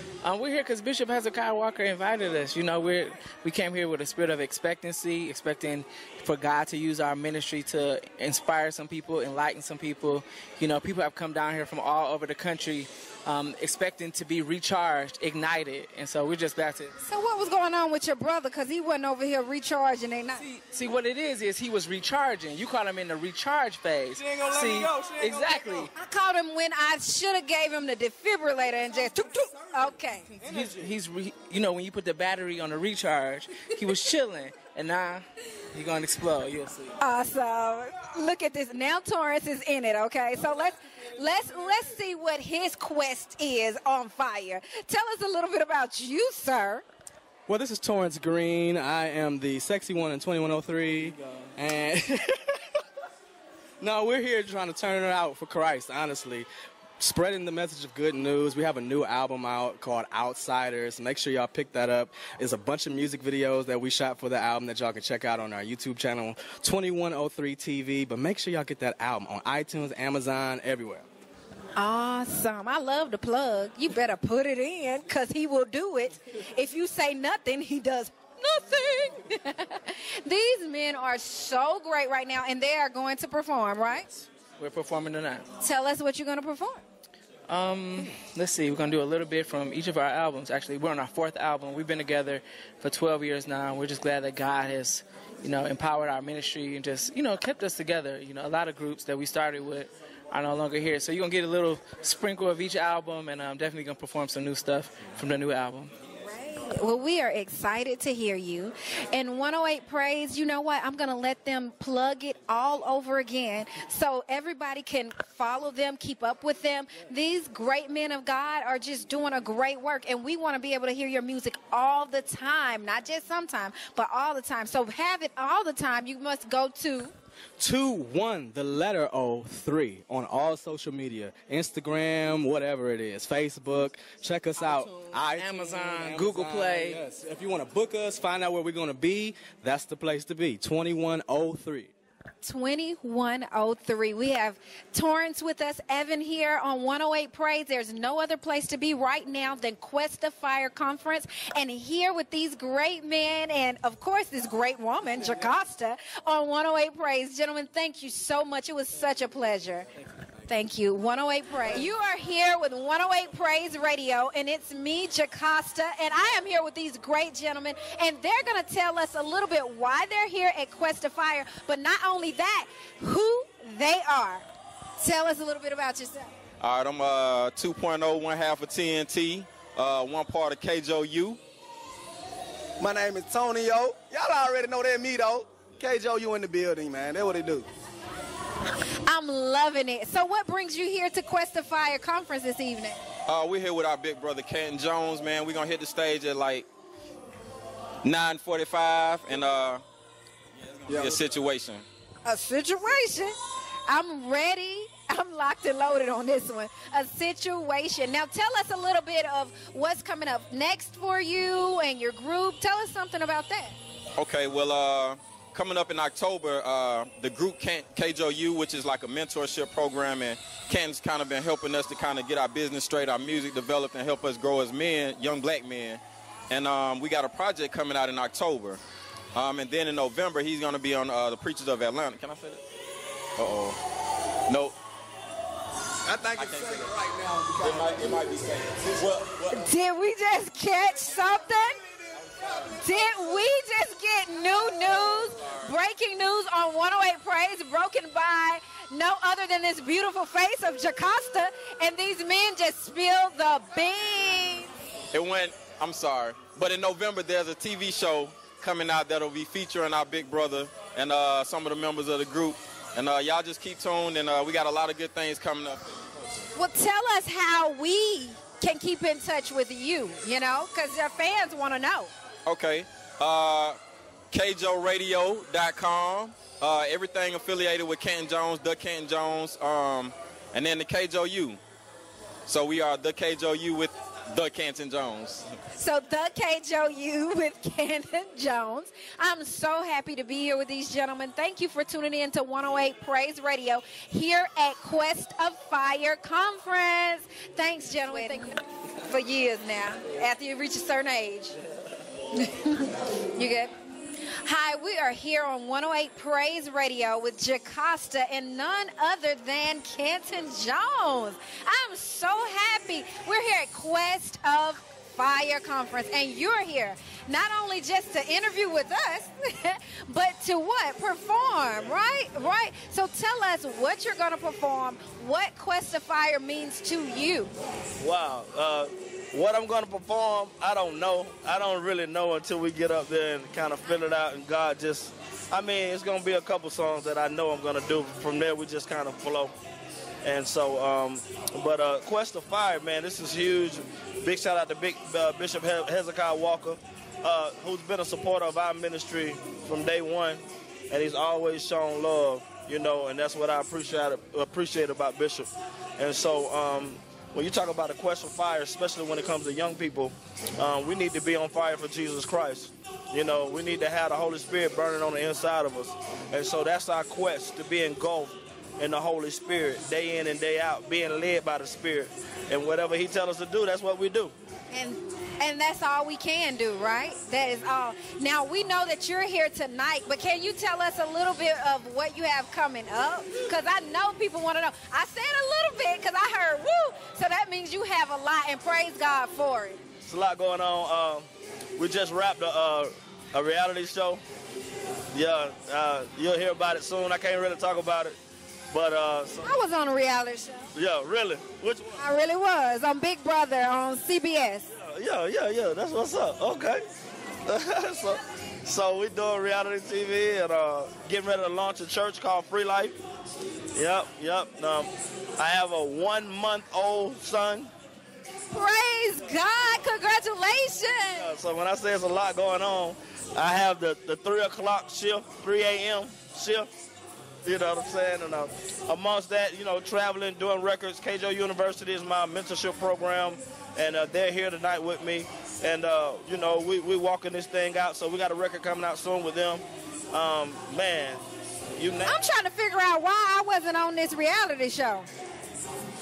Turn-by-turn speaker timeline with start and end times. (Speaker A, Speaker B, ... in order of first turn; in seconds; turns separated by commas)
Speaker A: 0.2-16.9, Speaker B: 17.0-20.4, Speaker A: 20.4-25.9, Speaker C: 24.2-25.9, Speaker B: 25.9-30.3, Speaker A: 30.3-37.0, Speaker C: 30.4-30.9, Speaker B: 37.0-46.8, Speaker C: 47.5-52.6, Speaker A: 51.0-51.4, Speaker C: 53.8-56.5, Speaker C: 57.0-71.1, Speaker B: 71.8-84.1, Speaker A: 84.6-85.5, Speaker B: 85.6-86.8, Speaker A: 87.5-105.9, Speaker B: 106.3-127.1, Speaker C: 127.6-141.9, Speaker A: 134.6-137.0, Speaker B: 142.4-159.9, Speaker B: 160.5-174.4, Speaker B: 175.0-176.3, Speaker D: 176.6-181.4, Speaker E: 182.8-187.7, Speaker B: 189.1-193.0, Speaker D: 193.3-196.7, Speaker D: 198.0-199.8, Speaker D: 200.7-201.8, Speaker C: 200.9-201.2, Speaker B: 202.2-203.4, Speaker B: 203.9-213.8, Speaker D: 214.2-228.8, Speaker D: 229.3-232.6, Speaker D: 233.4-233.8, Speaker D: 234.5-234.8, Speaker E: 236.1-238.0, Speaker D: 236.4-237.0, Speaker D: 237.6-239.5, Speaker B: 239.5-241.8, Speaker E: 242.4-242.8, Speaker B: 242.8-254.7, Speaker D: 245.2-245.7, Speaker D: 255.1-266.2, Speaker B: 266.6-272.1, Speaker D: 272.5-273.8, Speaker D: 274.3-281.6, Speaker D: 282.5-285.5, Speaker B: 285.8-301.6, Speaker B: 302.4-303.7, Speaker B: 304.4-327.5, Speaker F: 328.0-339.6, Speaker F: 340.2-374.3, Speaker B: 374.7-389.8, Speaker F: 390.1-394.2, Speaker F: 395.1-398.2, Speaker F: 398.7-399.6, Speaker B: 399.4-400.7, Speaker F: 400.8-402.0, Speaker B: 402.0-404.7, Speaker F: 404.7-406.9, Speaker F: 407.5-413.0, Speaker F: 413.8-417.7, Speaker B: 418.5-421.3, Speaker F: 421.2-426.7, Speaker F: 427.4-441.2, Speaker F: 441.8-442.2, Speaker B: 442.0-445.1